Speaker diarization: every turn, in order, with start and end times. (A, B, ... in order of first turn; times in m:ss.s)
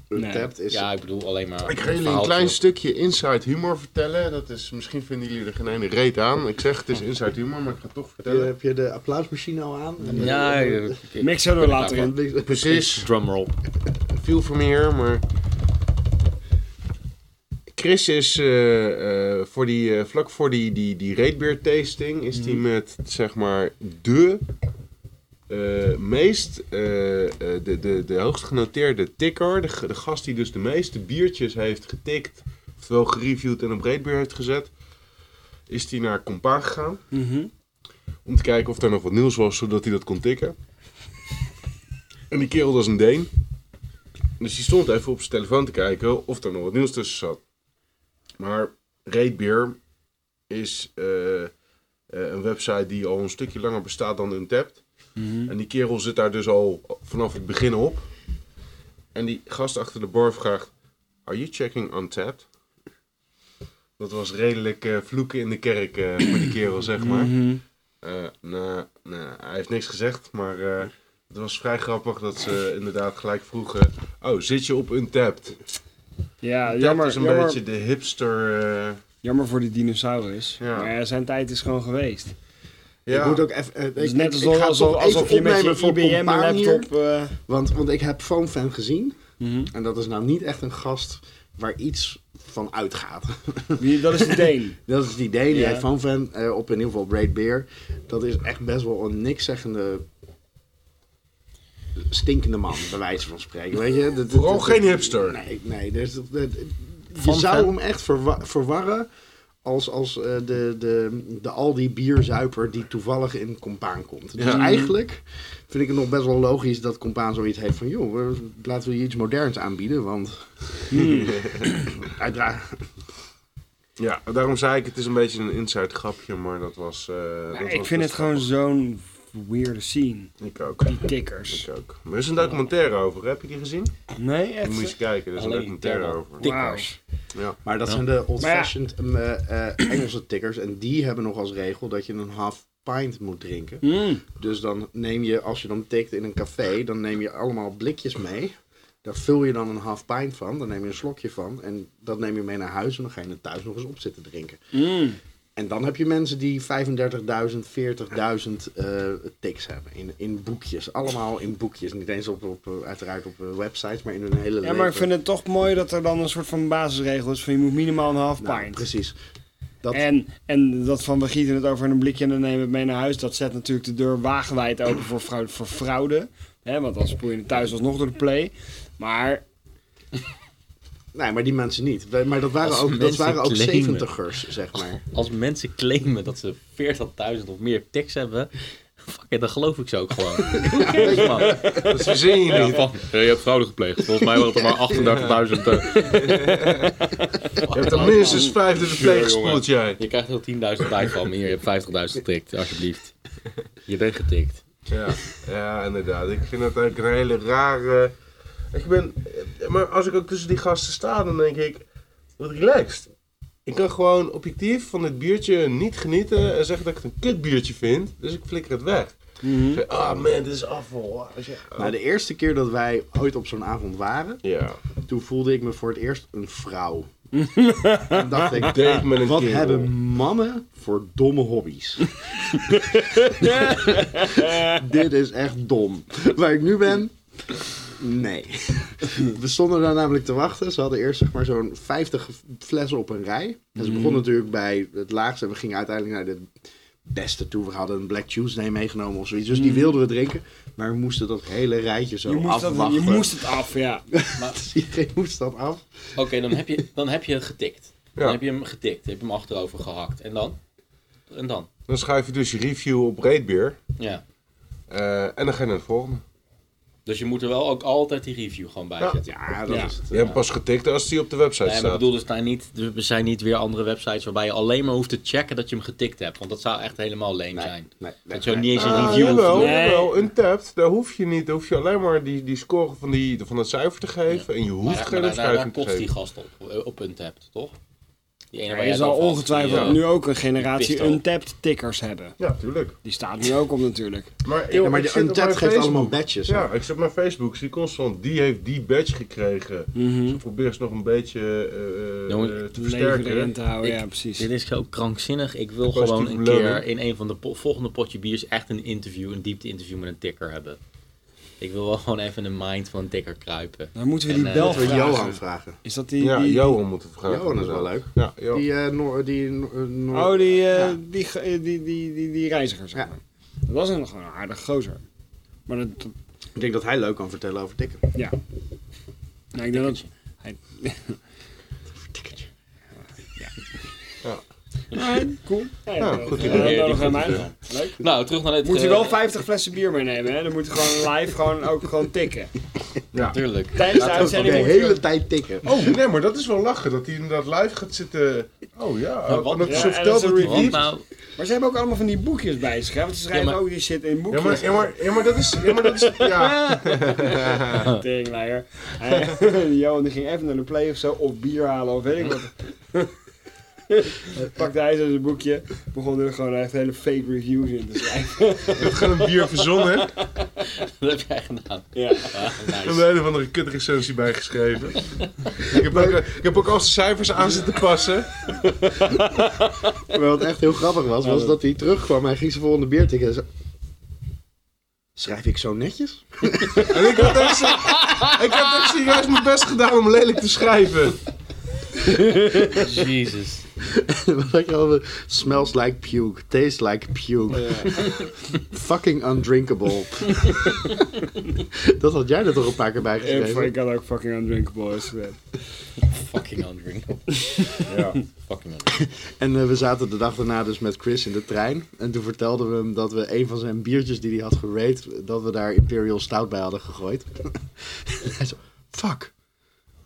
0:00.1-0:00.8 A
0:00.2-0:00.5 B
0:00.7-0:02.6 C
0:01.6-0:08.5 D
0:08.2-0:11.0 A
0:10.1-0:13.5 C
0:11.2-0:12.1 B
0:11.7-0:13.0 A
0:12.4-0:13.0 D
0:14.2-0:15.2 D
0:17.7-0:24.4 D
0:25.5-0:34.7 D
0:35.7-0:37.0 D
0:37.1-0:37.5 B
0:38.2-0:40.6 D
0:42.3-0:43.3 D
0:44.4-0:47.4 D
0:48.4-0:49.8 D
0:50.5-0:51.5 D
0:52.1-0:54.8 D
0:55.2-0:55.5 B
0:55.5-0:58.1 D
0:59.1-1:00.7 D
1:01.3-1:02.4 D
1:04.0-1:07.4 D
1:07.0-1:07.6 B
1:08.0-1:15.6 D
1:16.4-1:17.6 B
1:16.7-1:19.0 D
1:19.2-1:22.4 B
1:20.6-1:20.9 D
1:23.1-1:23.4 D
1:23.1-1:26.9 A
1:24.0-1:27.4 B
1:27.5-1:29.2 A
1:29.4-1:29.7 B
1:29.7-1:40.0 A
1:33.8-1:34.8 B
1:35.5-1:35.8 B
1:42.0-1:49.1 A
1:44.3-1:45.4 D
1:47.2-1:47.7 C
1:49.6-2:01.1 A
1:54.4-1:54.8 D
1:54.4-1:54.9 B
2:00.9-2:01.9 B
2:01.0-2:01.7 D
2:02.0-2:02.9 A
2:04.0-2:08.5 D
2:07.5-2:11.7 B
2:10.4-2:13.9 D
2:14.2-2:15.0 B
2:14.6-2:16.5 D
2:15.4-2:17.0 C
2:16.4-2:16.9 B
2:17.6-2:34.8 A
2:18.4-2:18.7 B
2:23.8-2:24.2 B
2:34.7-2:35.2 B
2:35.6-2:45.1 A
2:44.6-2:48.8 B
2:48.4-2:49.2 A
2:49.9-2:59.4 B
3:01.1-3:05.0 A
3:02.6-3:04.1 C
3:05.1-3:11.9 C
3:10.5-3:11.5 A
3:11.4-3:12.9 D
3:12.4-3:16.5 C
3:15.9-3:17.0 D
3:16.3-3:16.9 B
3:17.6-3:23.2 C
3:17.7-3:20.0 D
3:17.8-3:18.5 B
3:23.9-3:24.6 C
3:24.9-3:28.2 D
3:28.7-3:31.8 D
3:32.4-3:33.1 D
3:33.7-3:41.9 D
3:39.4-3:39.8 B
3:41.8-3:44.4 A
3:44.4-3:44.8 D
3:45.1-3:47.1 A
3:47.3-3:48.6 B
3:48.0-4:06.5 A
3:48.5-3:49.9 D
3:52.6-3:54.8 B
4:03.8-4:04.2 B
4:07.1-4:13.4 A
4:09.5-4:10.0 B
4:12.3-4:14.1 B
4:14.1-4:15.8 A
4:16.2-4:20.6 C
4:21.3-4:21.7 C
4:21.9-4:23.8 D
4:24.0-4:24.2 C
4:24.9-4:26.2 D
4:27.1-4:29.3 C
4:29.1-4:30.3 A
4:29.7-4:29.9 B
4:30.1-4:30.4 C
4:30.1-4:32.0 D
4:31.6-4:39.8 C
4:37.5-4:39.6 A
4:38.7-4:46.1 D
4:39.5-4:40.2 B
4:44.3-4:47.8 C
4:48.5-4:51.2 C
4:48.7-4:52.4 B
4:49.7-4:50.0 D
4:52.4-4:53.0 D
4:53.0-4:54.3 B
4:54.4-5:03.5 D
4:54.7-4:56.7 A
5:00.0-5:00.4 B
5:02.3-5:02.6 C
5:02.8-5:04.5 B
5:03.8-5:10.8 C
5:05.9-5:06.8 D
5:11.6-5:14.9 C
5:14.0-5:16.8 B
5:14.5-5:15.8 A
5:16.2-5:18.6 D
5:17.3-5:21.0 A
5:20.1-5:25.0 B
5:25.7-5:26.1 B
5:26.6-5:28.0 A
5:29.5-5:31.2 B
5:29.7-5:30.0 C
5:31.9-5:32.5 A
5:34.9-5:42.5 B
5:36.0-5:37.3 D
5:36.3-5:39.2 C
5:43.2-5:44.8 C
5:43.8-5:45.0 B
5:44.0-5:46.0 A
5:45.6-5:50.9 D
5:49.2-5:51.0 C
5:49.6-5:50.8 B
5:51.4-5:54.9 B
5:53.3-5:53.6 C
5:54.3-5:57.9 D
5:55.6-6:03.1 B
6:03.9-6:09.5 B
6:08.8-6:10.1 D
6:10.8-6:13.1 C
6:12.0-6:12.4 B
6:12.8-6:18.5 D
6:15.8-6:16.3 A
6:19.2-6:19.7 B
6:20.0-6:23.4 A
6:21.3-6:21.5 B
6:25.2-6:27.3 A
6:26.8-6:31.2 D
6:32.7-6:33.6 C
6:33.8-6:43.7 A
6:37.5-6:38.0 B
6:43.2-6:45.4 B
6:46.0-6:49.0 C
6:47.8-6:48.2 D
6:49.0-6:59.3 A